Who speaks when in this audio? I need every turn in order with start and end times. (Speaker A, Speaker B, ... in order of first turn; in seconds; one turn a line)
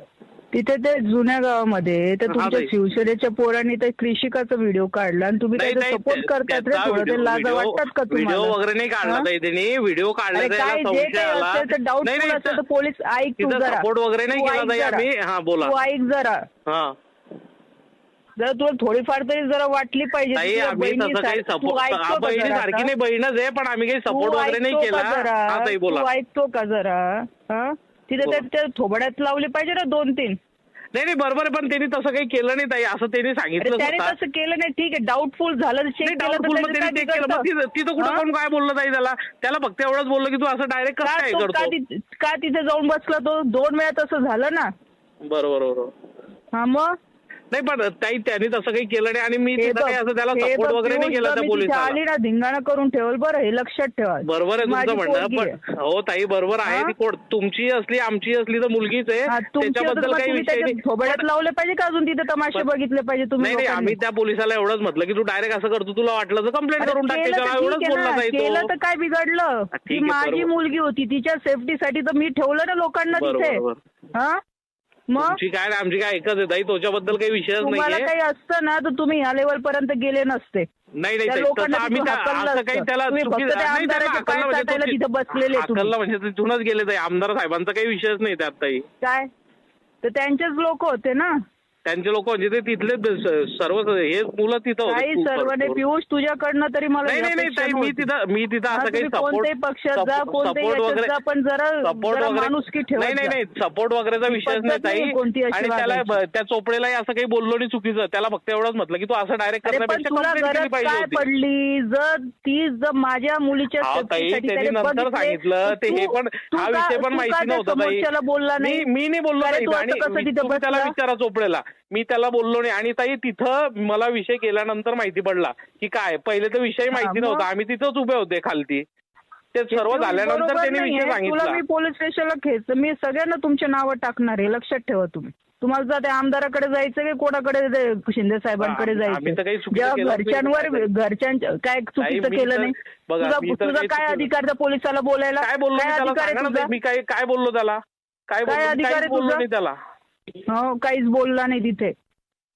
Speaker A: 0.5-9.2
Speaker B: 2.3-2.7
Speaker B: 5.5-12.6
Speaker A: 10.3-15.1
Speaker B: 13.4-15.7
Speaker A: 15.6-16.4
Speaker B: 16.7-16.9
Speaker A: 18.4-22.9
Speaker B: 20.3-26.1
Speaker A: 24.1-30.4
Speaker B: 30.9-34.1
Speaker A: 33.6-37.5
Speaker B: 36.0-41.7
Speaker A: 38.0-38.2
Speaker A: 41.0-44.7
Speaker B: 45.3-45.9
Speaker A: 46.5-46.9
Speaker B: 47.5-52.0
Speaker A: 49.6-55.6
Speaker B: 54.2-61.2
Speaker A: 56.6-56.9
Speaker A: 59.3-64.0
Speaker B: 63.4-68.7
Speaker A: 66.8-73.6
Speaker B: 69.7-70.5
Speaker B: 73.1-73.8
Speaker A: 74.1-74.4
Speaker A: 75.1-75.4
Speaker B: 75.2-78.1
Speaker A: 77.6-80.7
Speaker B: 81.0-88.8
Speaker A: 81.2-85.9
Speaker A: 89.0-89.3
Speaker A: 90.0-91.3
Speaker B: 91.8-95.8
Speaker A: 94.8-98.1
Speaker B: 97.0-101.1
Speaker A: 98.7-103.4
Speaker B: 101.8-111.2
Speaker A: 104.3-106.2
Speaker A: 109.6-118.8
Speaker B: 113.8-118.0
Speaker B: 118.6-128.8
Speaker A: 119.4-120.9
Speaker A: 127.0-127.5
Speaker B: 129.5-131.6
Speaker A: 129.7-146.7
Speaker B: 138.6-140.9
Speaker B: 142.0-144.3
Speaker B: 145.4-149.8
Speaker A: 148.5-149.4
Speaker A: 150.5-151.9